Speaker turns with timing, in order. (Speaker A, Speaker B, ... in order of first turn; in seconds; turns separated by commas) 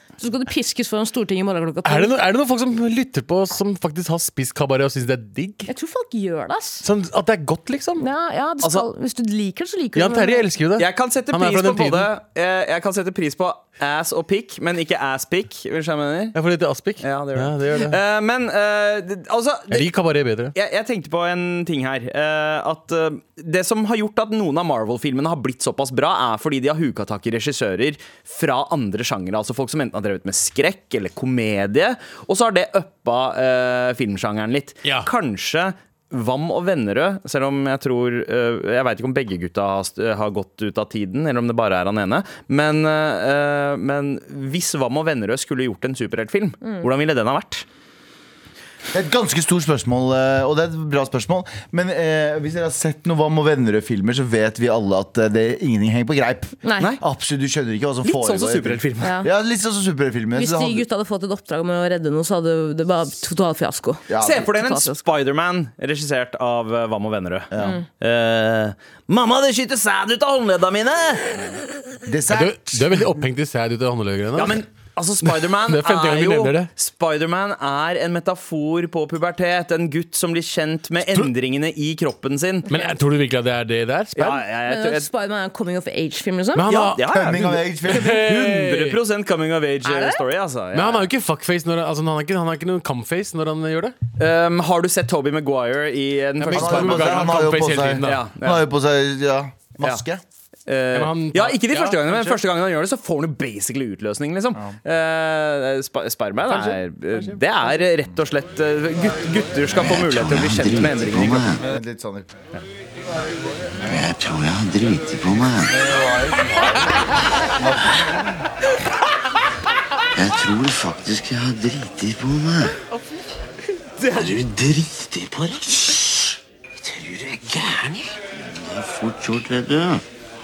Speaker A: 0.2-2.1, Speaker B: 1.8-5.7, Speaker A: 5.7-6.8, Speaker B: 6.8-8.1, Speaker A: 8.0-10.5, Speaker B: 9.9-12.1, Speaker C: 10.8-16.4, Speaker B: 16.3-18.0, Speaker C: 17.0-19.9, Speaker B: 19.7-20.5, Speaker C: 20.5-47.6, Speaker B: 34.8-35.1, Speaker D: 48.9-60.8, Speaker A: 56.6-56.9, Speaker C: 58.0-59.1, Speaker A: 59.0-59.3, Speaker A: 60.3-65.0, Speaker D: 64.1-64.5, Speaker C: 64.2-71.6, Speaker D: 67.5-67.8, Speaker A: 67.6-67.8, Speaker D: 72.0-73.1, Speaker B: 72.3-74.6, Speaker C: 74.3-82.7, Speaker B: 75.2-76.7, Speaker B: 81.0-81.3, Speaker B: 82.7-84.4, Speaker C: 84.1-85.1, Speaker A: 84.6-86.7, Speaker B: 86.5-89.0, Speaker C: 86.7-91.1, Speaker D: 87.0-88.2, Speaker A: 89.8-90.2, Speaker B: 90.7-94.0, Speaker C: 94.2-97.4, Speaker B: 96.4-98.2, Speaker D: 96.5-100.2, Speaker C: 98.0-98.7, Speaker C: 100.7-111.4, Speaker B: 100.9-102.4, Speaker B: 106.5-107.4, Speaker E: 109.7-111.6, Speaker D: 111.6-112.4, Speaker E: 113.8-115.8, Speaker E: 120.1-122.7, Speaker E: 124.1-130.0